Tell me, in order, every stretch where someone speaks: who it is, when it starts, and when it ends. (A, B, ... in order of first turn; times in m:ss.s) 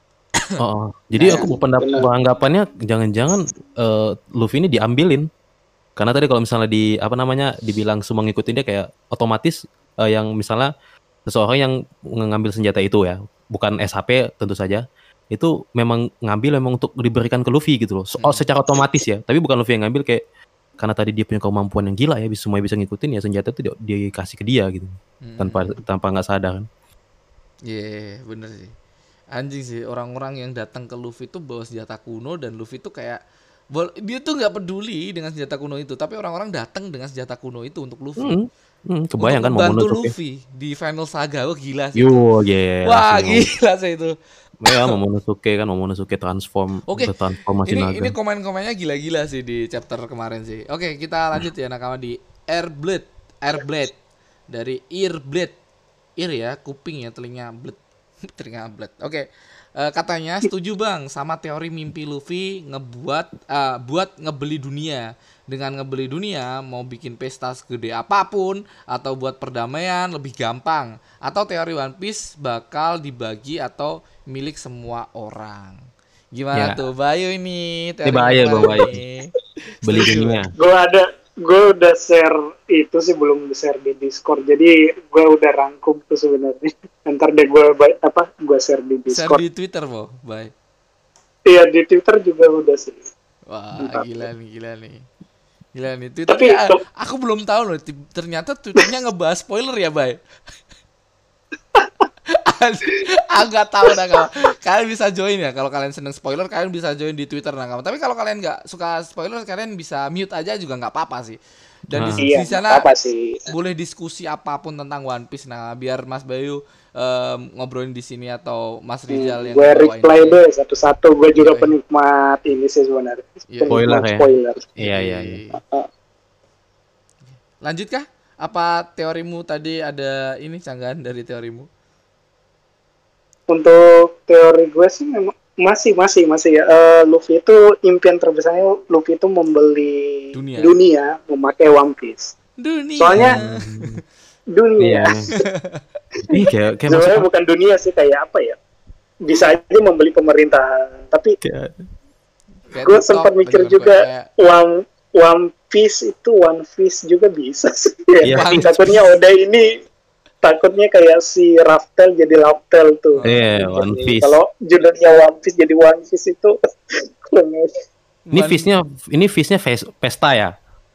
0:00.6-0:05.2 A
0:01.2-0:02.1 B
0:06.0-0:10.7 A
0:11.2-0:20.2 A
0:20.8-0:26.7 A
0:25.2-0:25.8 C
0:27.7-0:28.7 C
0:29.3-0:33.2 C
0:33.7-0:38.4 C
0:38.2-0:40.1 A
0:39.2-0:42.2 C
0:42.0-0:43.4 A
0:42.8-0:44.2 C
0:44.6-0:48.1 A
0:44.7-0:44.9 C
0:47.7-0:54.0 C
0:54.5-0:55.5 C
0:56.2-0:57.8 C
0:58.3-0:59.2 C
0:59.8-1:15.8 C
1:16.3-1:19.3 C
1:16.5-1:16.8 A
1:18.0-1:19.0 A
1:18.5-1:18.9 B
1:19.8-1:20.5 A
1:19.8-1:20.4 C
1:20.6-1:29.4 B
1:29.1-1:30.5 C
1:31.4-1:33.0 B
1:33.5-1:35.0 C
1:33.8-1:34.3 B
1:35.7-1:40.2 C
1:36.3-1:36.8 B
1:42.3-1:51.4 C
1:51.9-1:52.9 C
1:51.9-1:52.2 A
1:52.2-1:53.5 B
1:53.5-2:00.4 C
1:59.1-2:04.7 B
2:01.4-2:01.7 C
2:03.5-2:03.8 C
2:03.7-2:05.4 A
2:04.8-2:05.6 C
2:05.5-2:05.9 B
2:07.6-2:11.7 C
2:13.5-2:22.3 B
2:20.3-2:20.8 C
2:22.6-2:23.9 C
2:23.0-2:23.3 B
2:23.1-2:24.0 A
2:24.5-2:25.4 B
2:24.8-2:25.3 A
2:25.4-2:25.8 C
2:26.2-2:27.2 A
2:26.9-2:28.6 B
2:29.2-2:31.4 B
2:31.4-2:31.8 A
2:32.7-2:34.3 C
2:32.9-2:39.8 B
2:38.2-2:38.7 A
2:38.2-2:39.0 C
2:40.4-2:47.7 B
2:43.1-2:43.4 C
2:43.2-2:44.4 A
2:48.3-2:48.7 C
2:48.3-2:50.5 A